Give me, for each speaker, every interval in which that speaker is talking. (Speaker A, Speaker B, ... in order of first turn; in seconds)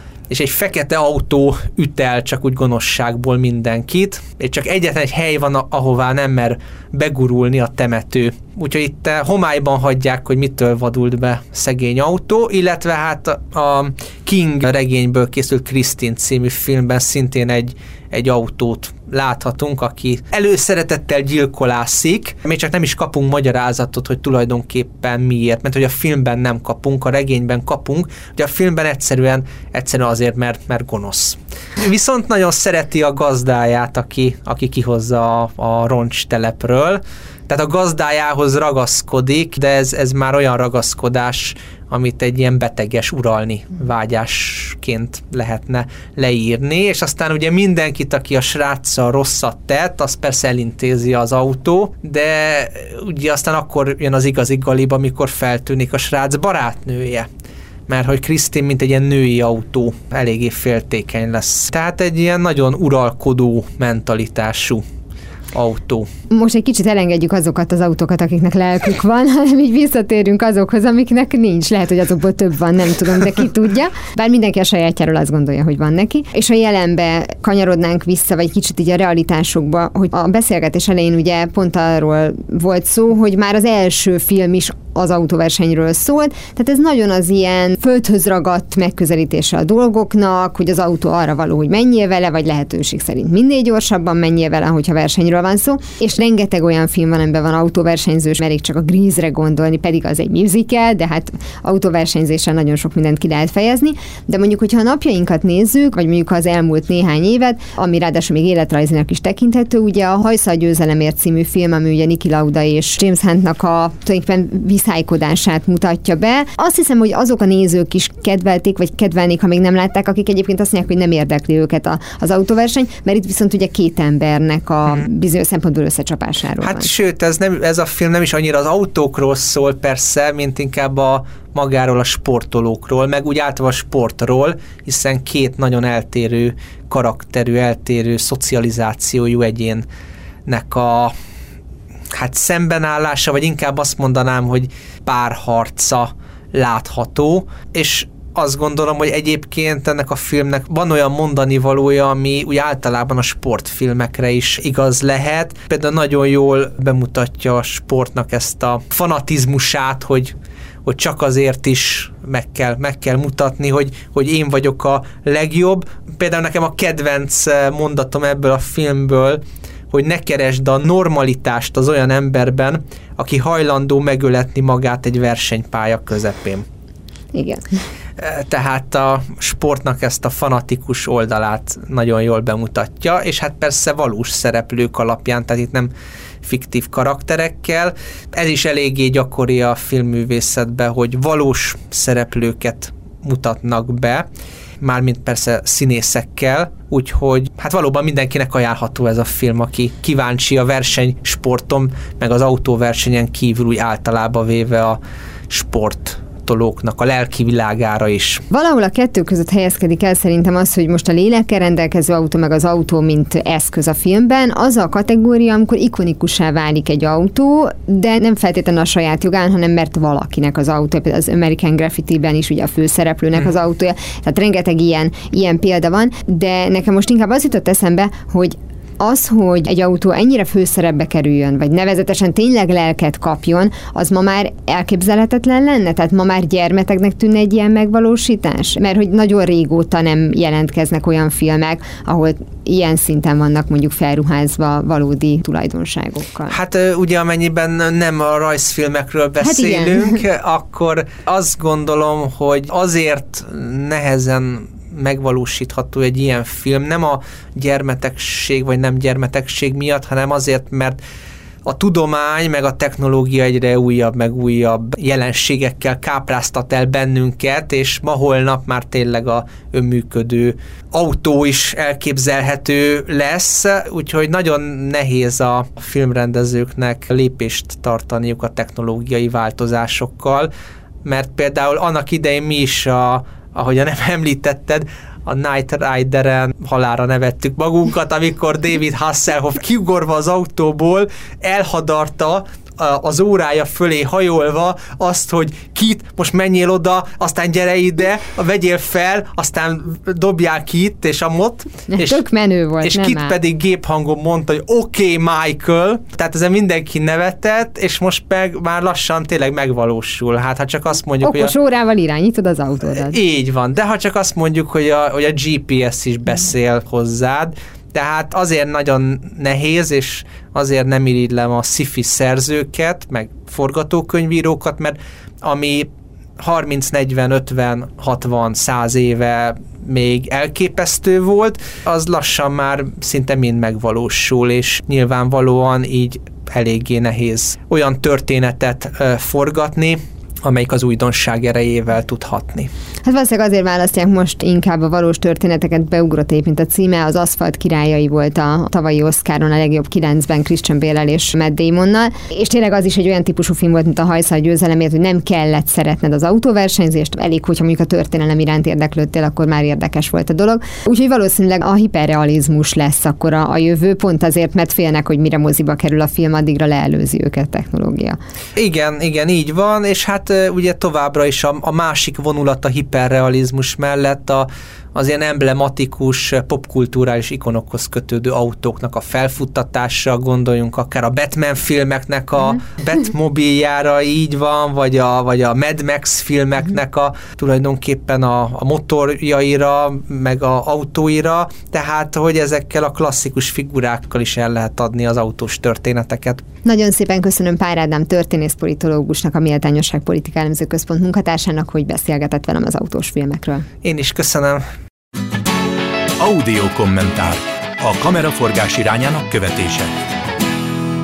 Speaker A: 0.3-57.3, 57.9-64.8, 65.5-66.1, 126.6-139.9, 140.5-141.1, 142.1-176.7, 178.2-185.9, 186.4-194.3, 194.8-208.4, 246.5-261.0, 261.7-280.5, 281.0-302.2, 302.8-311.5, 312.9-342.7, 368.6-396.4, 403.8-404.6
Speaker B: 66.3-126.9, 177.3-177.6, 208.5-246.6, 249.4-250.2, 301.9-303.4, 311.2-313.2, 343.1-368.2, 396.6-403.7
Speaker C: 406.2-409.9